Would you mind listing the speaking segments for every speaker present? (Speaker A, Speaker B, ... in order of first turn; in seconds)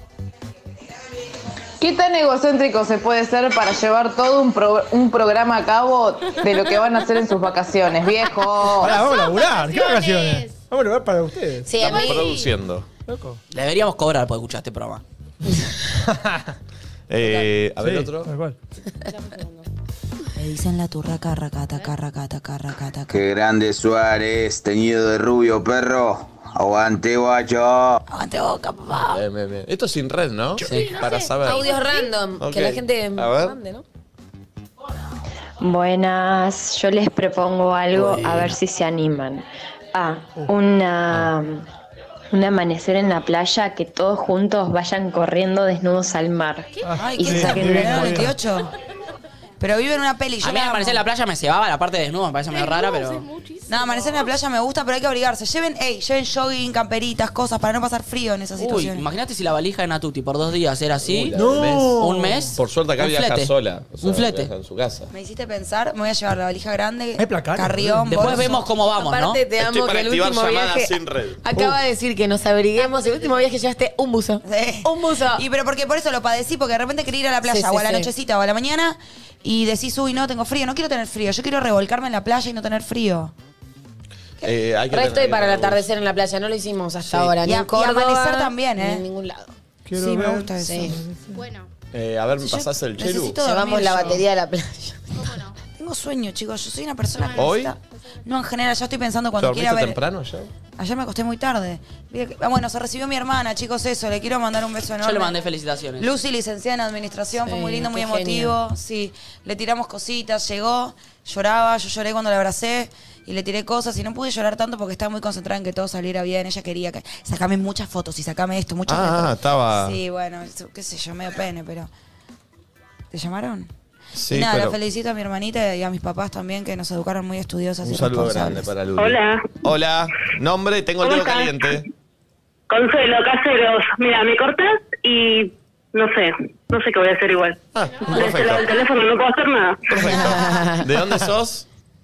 Speaker A: 1.8-8.9
Speaker B: 6.4-6.8, 8.8-10.6, 11.8-12.6, 30.6-32.1, 52.5-54.3, 72.8-73.5, 91.3-91.7, 95.1-95.6, 97.2-97.6, 137.9-138.3
Speaker C: 8.8-11.8, 13.1-13.4, 16.0-16.5, 17.8-18.6, 46.9-48.3, 61.3-62.6, 67.2-68.6, 89.8-91.4
Speaker D: 11.6-12.3, 31.4-33.8, 68.9-75.4, 77.5-78.1, 84.9-89.5, 90.6-91.0, 93.4-95.1, 107.5-108.6, 139.9-140.9
Speaker E: 11.8-12.9, 17.1-18.3, 29.1-31.7, 32.4-33.6, 61.1-62.0, 62.6-65.1, 69.6-71.4, 84.4-85.8, 91.9-93.4, 97.3-97.7, 99.4-100.5, 118.9-120.0, 124.2-124.8, 127.8-131.9, 137.7-138.8, 139.9-141.7
Speaker F: 13.5-15.0, 30.6-30.9, 38.0-38.4, 50.4-53.2, 58.6-61.4, 62.0-64.5, 68.1-69.4, 105.0-106.1
Speaker G: 20.4-23.2, 28.1-29.2, 47.0-48.7, 49.6-51.0, 53.7-59.0, 65.1-68.6, 74.4-83.3, 87.4-89.1, 90.0-91.0, 92.4-94.2, 95.8-100.0, 100.8-105.3, 106.0-121.9, 123.1-123.7, 124.3-128.7
Speaker H: 23.1-28.0
Speaker I: 35.6-41.6, 42.3-48.2
Speaker J: 129.0-129.5, 131.0-131.8, 132.7-140.2